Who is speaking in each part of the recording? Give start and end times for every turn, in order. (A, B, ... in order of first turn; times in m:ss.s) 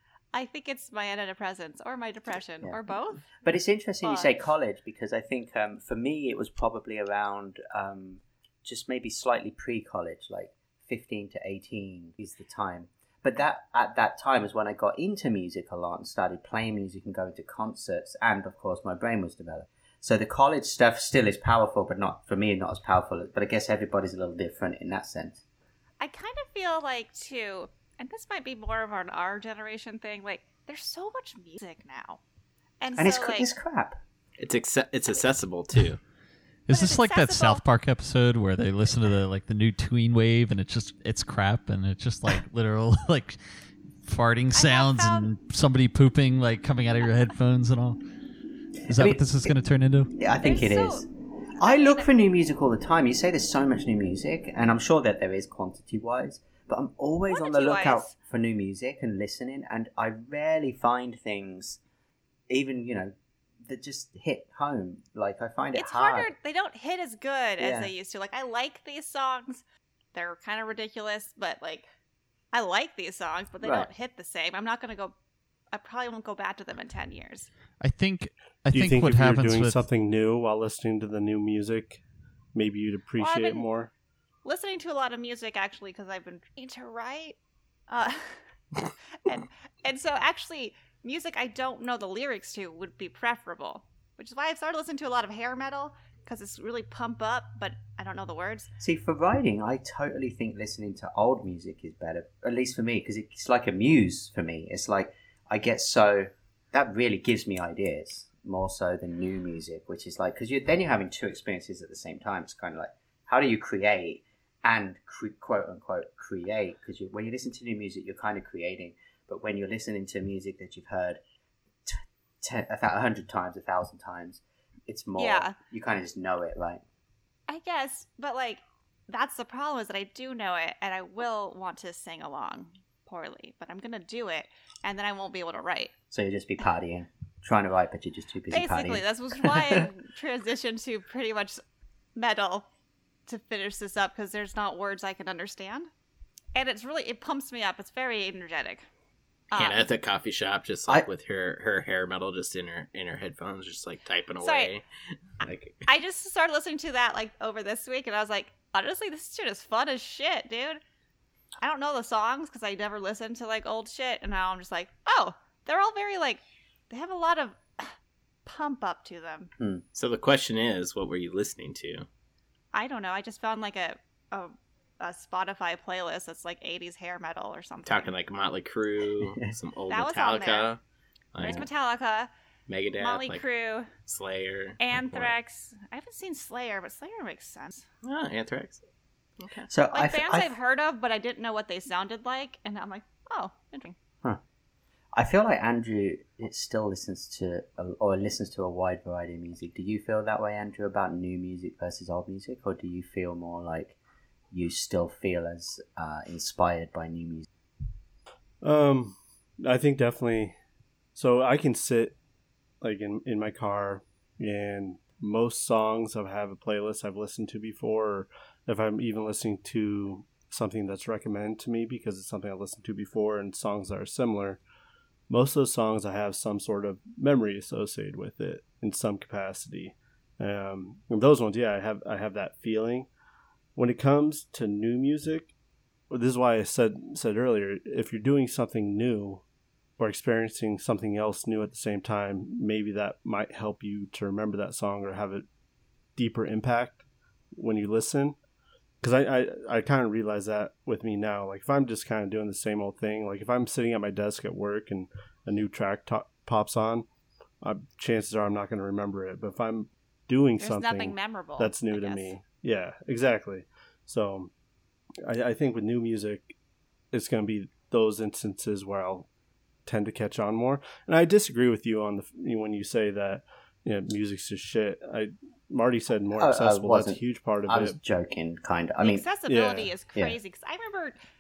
0:00.3-0:03.3 A
0:02.6-0:25.4 B
0:04.0-0:04.3 A
0:26.0-0:32.2 A
0:32.8-0:33.5 A
0:33.0-0:34.0 B
0:34.4-0:36.0 C
0:36.7-0:43.4 D
0:36.7-0:37.6 A
0:44.0-0:48.0 D
0:44.5-0:45.3 A
0:48.9-0:50.1 D
0:48.9-0:49.5 B
0:50.1-0:51.0 B
0:50.4-0:51.0 A
0:51.6-0:52.1 A
0:51.6-1:01.8 B
0:57.3-0:58.1 A
1:02.5-1:03.1 B
1:03.6-1:06.3 B
1:05.7-1:09.6 A
1:07.6-1:07.9 B
1:10.1-1:11.8 A
1:12.5-1:15.1 A
1:13.6-1:13.9 B
1:15.7-1:17.5 A
1:17.8-1:19.8 D
1:18.7-1:22.0 E
1:22.5-1:23.9 E
1:23.2-1:23.6 A
1:24.4-1:27.4 A
1:27.9-1:28.4 A
1:29.2-1:38.7 A
1:38.8-2:01.2 B
2:01.8-2:06.8 B
2:05.2-2:05.6 A
2:07.5-2:15.9 A
2:16.1-2:19.9 B
2:18.5-2:21.6 A
2:22.2-2:22.6 A
2:23.3-2:25.9 A
2:26.5-2:28.8 A
2:29.5-2:29.8 A
2:29.5-2:34.8 C
2:34.4-2:34.7 A
2:35.4-2:35.8 C
2:35.8-2:40.8 A
2:41.6-2:47.9 A
2:48.4-2:49.5 A
2:49.6-2:49.8 B
2:49.9-2:52.0 C
2:52.7-2:58.1 A
2:57.8-3:00.8 C
2:59.9-3:00.7 A
3:01.3-3:01.7 C
3:01.4-3:02.3 A
3:01.4-3:01.6 B
3:02.7-3:03.4 C
3:03.0-3:03.9 A
3:04.0-3:05.3 C
3:04.8-3:07.8 A
3:08.0-3:08.8 C
3:09.4-3:09.7 C
3:09.7-3:10.5 B
3:09.9-3:14.0 A
3:15.1-3:24.0 B
3:24.5-3:27.5 B
3:28.6-3:30.5 E
3:31.1-3:32.2 E
3:32.8-3:44.6 E
3:45.3-3:53.1 E
3:53.8-3:55.5 E
3:56.1-3:59.4 E
4:00.0-4:05.4 E
4:06.2-4:07.0 E
4:07.5-4:08.4 E
4:09.0-4:17.0 E
4:17.6-4:24.5 E
4:20.6-4:22.3 A
4:25.2-4:26.5 E
4:27.1-4:29.3 E
4:29.8-4:38.0 E
4:36.4-4:39.2 B
4:39.0-4:41.2 A
4:39.5-4:39.9 E